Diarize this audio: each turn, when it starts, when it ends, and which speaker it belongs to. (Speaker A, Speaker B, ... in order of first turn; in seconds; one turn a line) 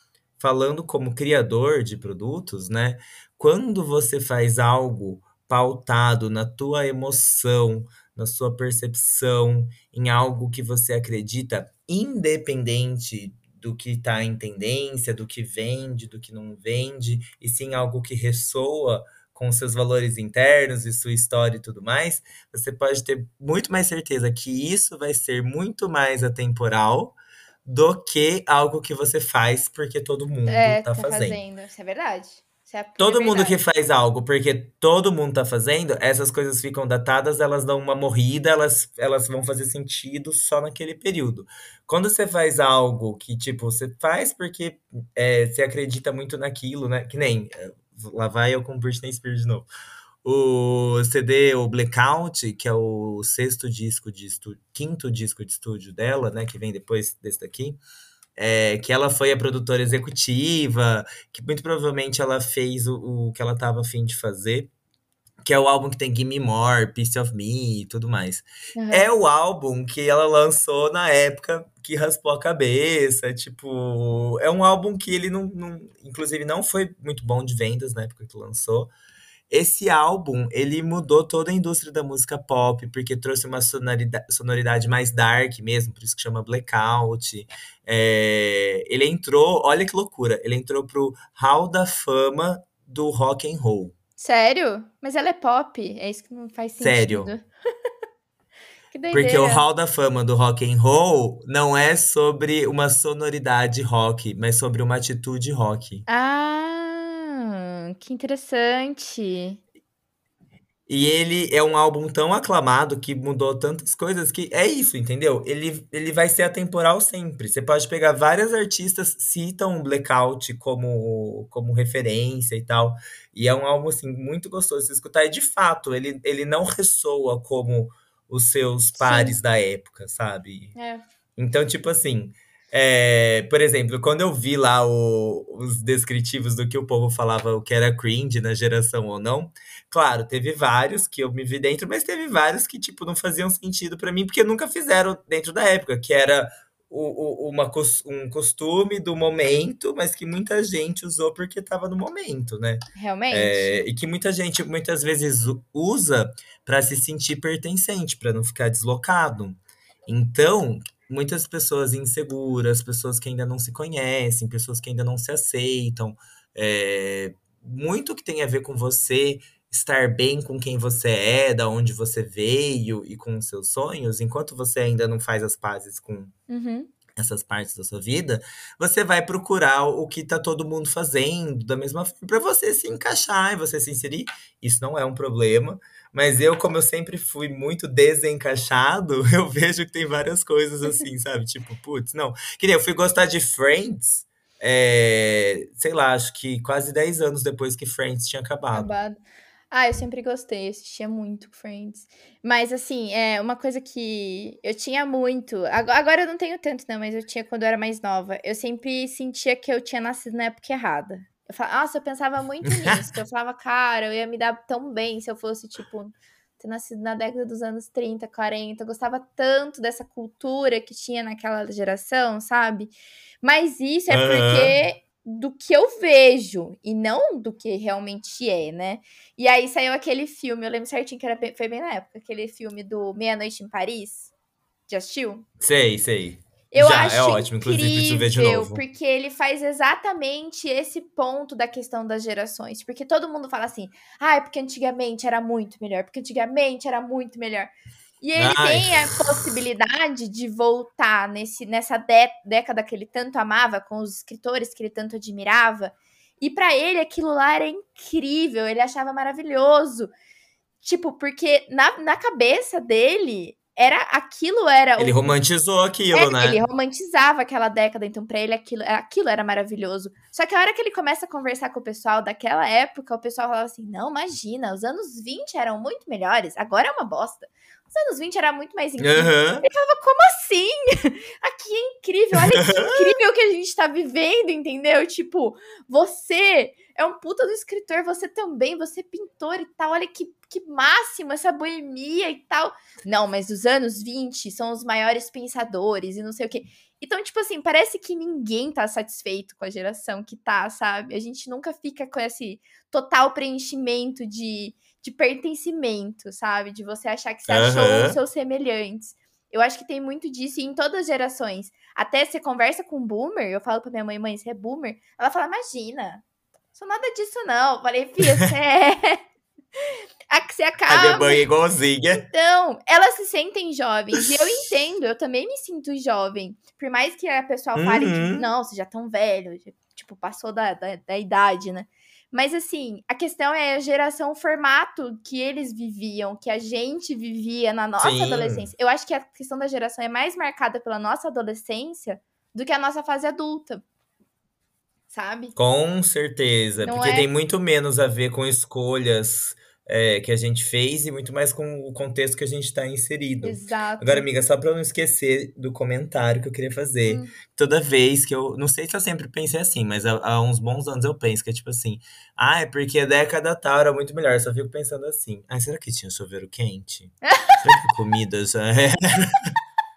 Speaker A: 0.4-31.4
Speaker B: 30.5-33.6
Speaker A: 33.0-49.7
Speaker A: 50.2-57.8
Speaker A: 58.4-64.7
Speaker A: 65.4-78.9
Speaker B: 68.8-69.1
Speaker A: 79.5-93.9
Speaker B: 94.2-97.5
Speaker A: 96.8-97.3
Speaker B: 98.9-99.6
Speaker A: 99.1-106.0
Speaker B: 106.1-109.6
Speaker A: 110.9-130.7
Speaker B: 129.0-129.4
Speaker B: 130.8-131.0
Speaker A: 131.4-176.3
Speaker B: 152.9-153.8
Speaker B: 176.5-176.9
Speaker A: 177.2-198.9
Speaker B: 198.7-199.2
Speaker B: 199.7-234.3
Speaker A: 212.6-213.0
Speaker A: 224.1-224.8
Speaker B: 234.9-235.4
Speaker A: 235.6-238.8
Speaker B: 236.7-260.1
Speaker A: 248.4-249.2
Speaker B: 260.8-265.3
Speaker A: 265.0-266.6
Speaker B: 266.1-316.2
Speaker A: 279.0-279.6
Speaker A: 282.5-283.0
Speaker A: 307.5-308.2
Speaker B: 316.7-319.2
Speaker B: 320.3-321.4
Speaker A: 320.9-322.2
Speaker B: 322.1-343.8
Speaker A: 327.7-328.5
Speaker A: 338.0-338.7
Speaker B: 345.1-345.6
Speaker A: 345.6-369.5
Speaker B: 346.8-347.3
Speaker B: 353.4-354.3
Speaker B: 357.1-357.3
Speaker B: 367.2-367.6